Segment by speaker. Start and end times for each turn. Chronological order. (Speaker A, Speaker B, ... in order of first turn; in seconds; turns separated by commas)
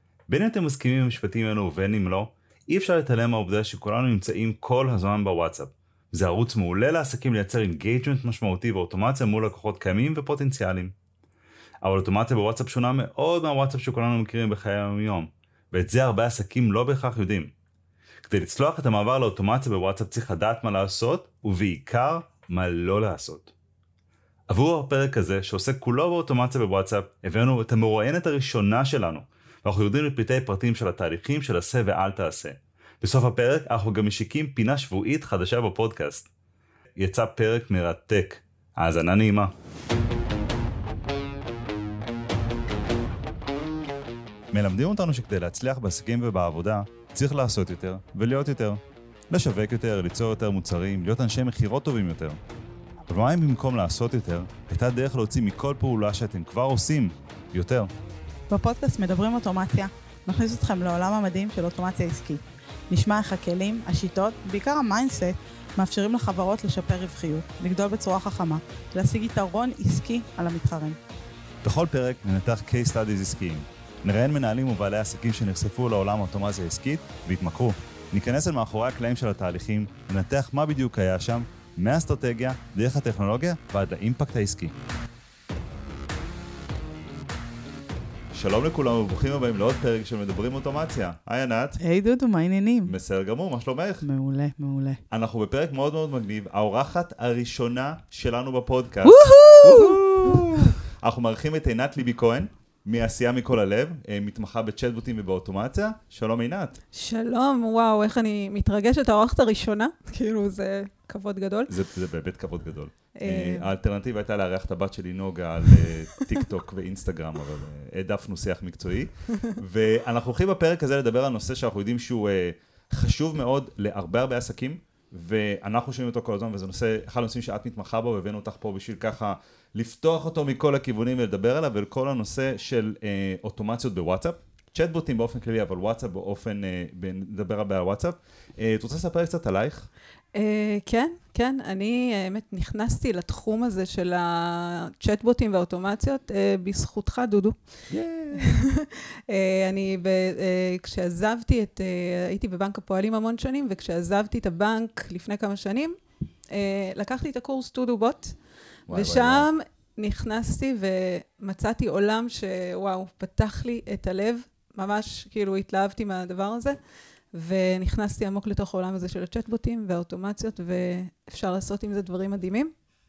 Speaker A: 0.3-10.9, Speaker A: 11.8-17.5, Speaker A: 18.2-23.5, Speaker A: 24.5-36.3, Speaker A: 37.0-39.5, Speaker A: 44.5-52.4, Speaker A: 53.1-57.9, Speaker B: 58.5-71.0, Speaker A: 71.6-84.7, Speaker A: 88.3-91.8, Speaker B: 91.8-92.9, Speaker A: 92.8-94.0, Speaker B: 94.0-95.0, Speaker A: 95.1-106.8, Speaker B: 99.0-100.4, Speaker C: 106.9-111.7, Speaker A: 111.7-139.9, Speaker C: 113.2-113.7, Speaker C: 140.3-147.6, Speaker A: 147.9-148.6, Speaker C: 148.3-155.9, Speaker C: 156.5-158.4, Speaker A: 158.9-159.5, Speaker C: 158.9-166.8, Speaker C: 167.3-172.7